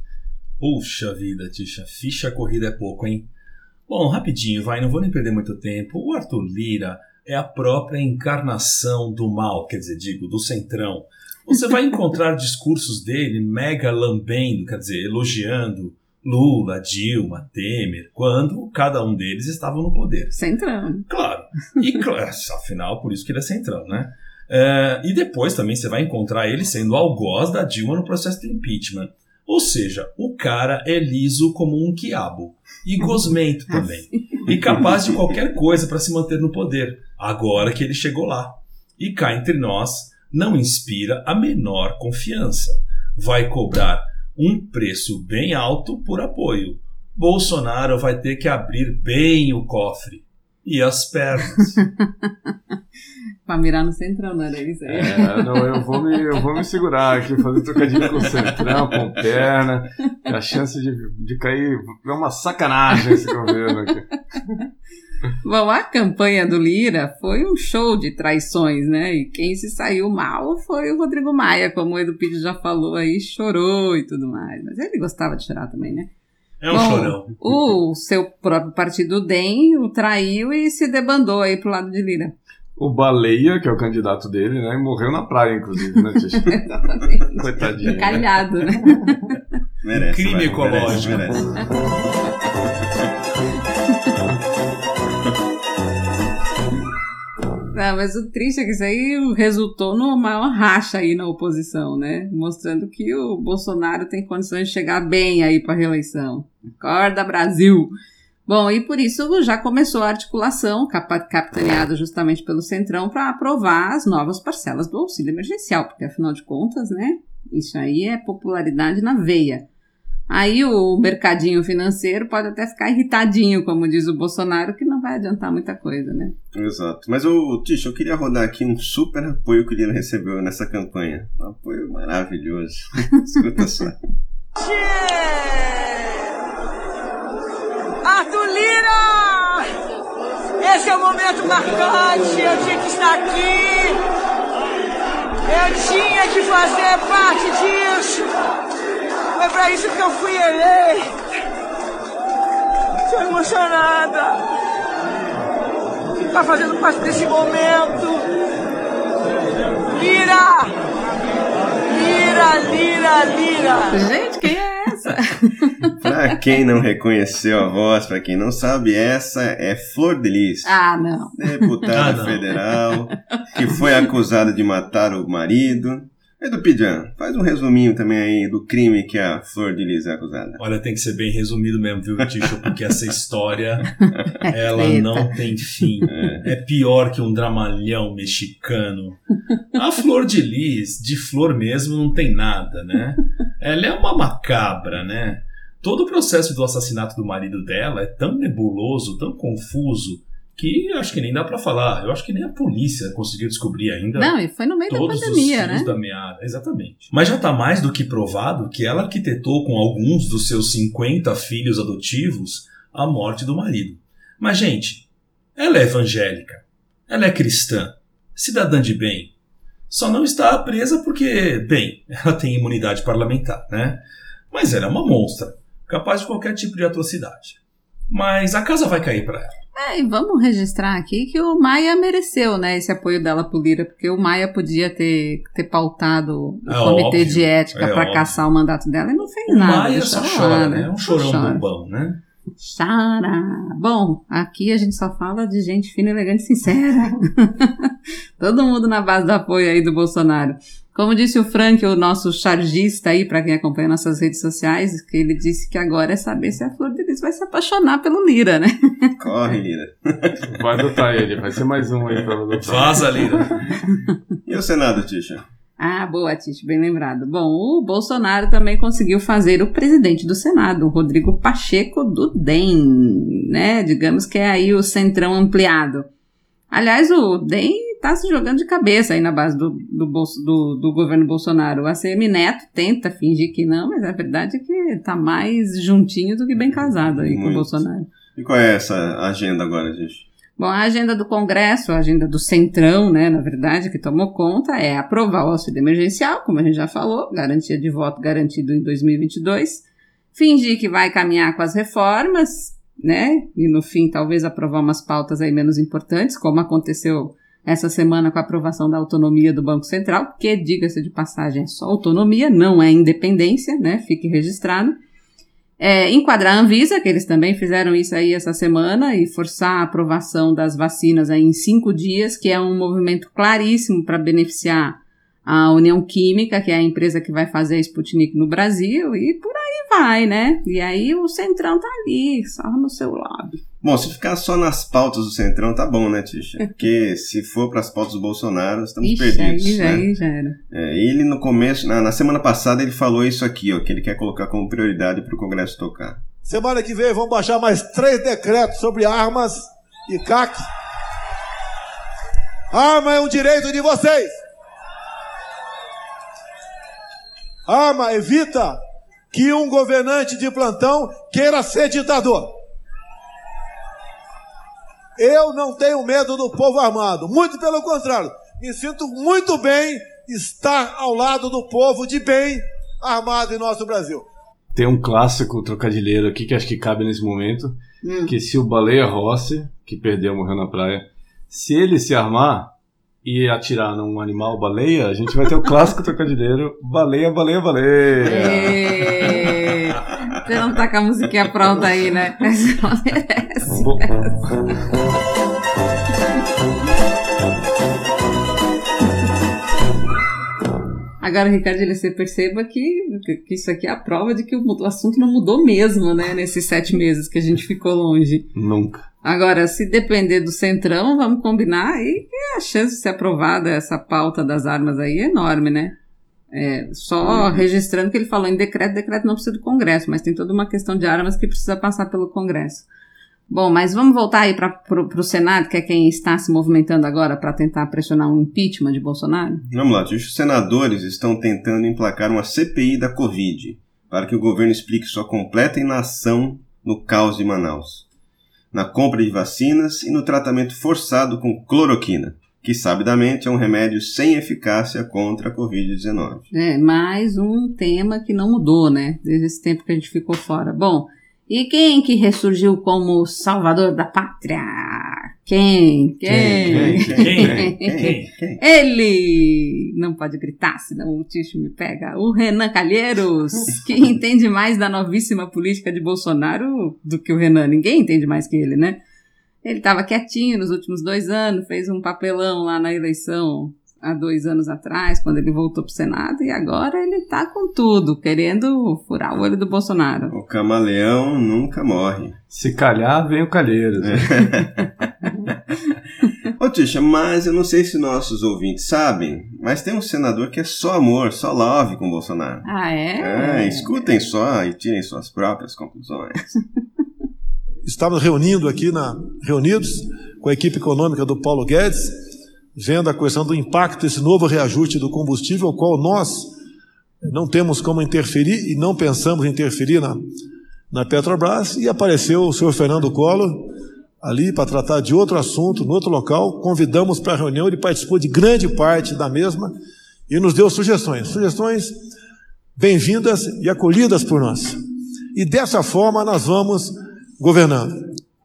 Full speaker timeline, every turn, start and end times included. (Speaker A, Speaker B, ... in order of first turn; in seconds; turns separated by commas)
Speaker A: 0.6-3.3, Speaker A: 3.9-20.4, Speaker B: 20.3-21.1, Speaker A: 21.1-51.9, Speaker B: 53.5-56.0, Speaker C: 54.9-64.1, Speaker B: 65.4-76.1, Speaker A: 76.6-77.3, Speaker B: 76.7-82.3, Speaker C: 82.8-86.5, Speaker B: 86.4-89.1, Speaker C: 87.4-89.1, Speaker D: 89.8-91.6, Speaker A: 90.0-91.3, Speaker B: 97.7-107.9, Speaker B: 108.5-119.6, Speaker B: 120.3-126.3, Speaker D: 126.5-134.0, Speaker E: 134.6-136.2, Speaker E: 138.1-139.7, Speaker E: 140.6-144.0, Speaker E: 145.5-148.3, Speaker E: 149.3-151.1, Speaker E: 153.1-154.4, Speaker E: 156.2-158.2, Speaker E: 159.9-160.7, Speaker E: 161.9-164.0, Speaker B: 163.9-165.9, Speaker D: 165.9-170.8, Speaker B: 170.6-171.4, Speaker D: 171.4-180.6, Speaker A: 171.9-172.4, Speaker A: 180.6-189.2, Speaker B: 184.4-185.3, Speaker D: 186.1-186.5, Speaker A: 189.7-204.3, Speaker B: 204.2-205.9, Speaker A: 204.9-219.3, Speaker A: 219.9-227.6, Speaker A: 228.1-229.6, Speaker B: 229.8-241.6, Speaker A: 236.7-238.4, Speaker A: 239.5-242.2, Speaker B: 242.6-259.1, Speaker D: 259.2-260.8, Speaker C: 260.4-263.4, Speaker A: 262.6-263.6, Speaker D: 264.4-265.4, Speaker B: 265.8-276.1, Speaker B: 276.7-288.1, Speaker D: 287.1-290.3, Speaker B: 290.6-315.0, Speaker B: 315.8-333.6, Speaker D: 333.8-340.1, Speaker B: 339.0-340.6, Speaker D: 340.7-346.2, Speaker F: 346.4-350.7, Speaker F: 352.7-354.3, Speaker F: 357.6-358.8, Speaker F: 359.3-362.5, Speaker F: 365.2-374.3, Speaker C: 374.7-382.7, Speaker B: 378.0-378.3, Speaker C: 383.2-388.9, Speaker B: 388.2-394.4, Speaker C: 393.8-394.1, Speaker B: 401.2-408.5, Speaker C: 408.6-409.1, Speaker B: 409.2-415.9, Speaker B: 416.5-422.9, Speaker B: 423.5-429.6, Speaker D: 429.7-438.1, Speaker D: 438.7-446.5, Speaker B: 446.5-457.9, Speaker C: 456.3-457.0, Speaker D: 456.4-458.6, Speaker A: 457.1-458.3, Speaker B: 458.6-469.0, Speaker B: 469.6-480.3, Speaker D: 480.3-482.4, Speaker C: 482.5-484.3, Speaker D: 484.0-484.9, Speaker D: 486.6-492.6, Speaker B: 492.6-494.0, Speaker D: 493.2-496.6, Speaker F: 497.9-502.1, Speaker F: 502.8-506.5, Speaker F: 507.2-510.2, Speaker F: 510.9-513.7, Speaker F: 514.2-519.7, Speaker F: 520.3-521.9, Speaker F: 522.8-524.8, Speaker F: 525.3-528.0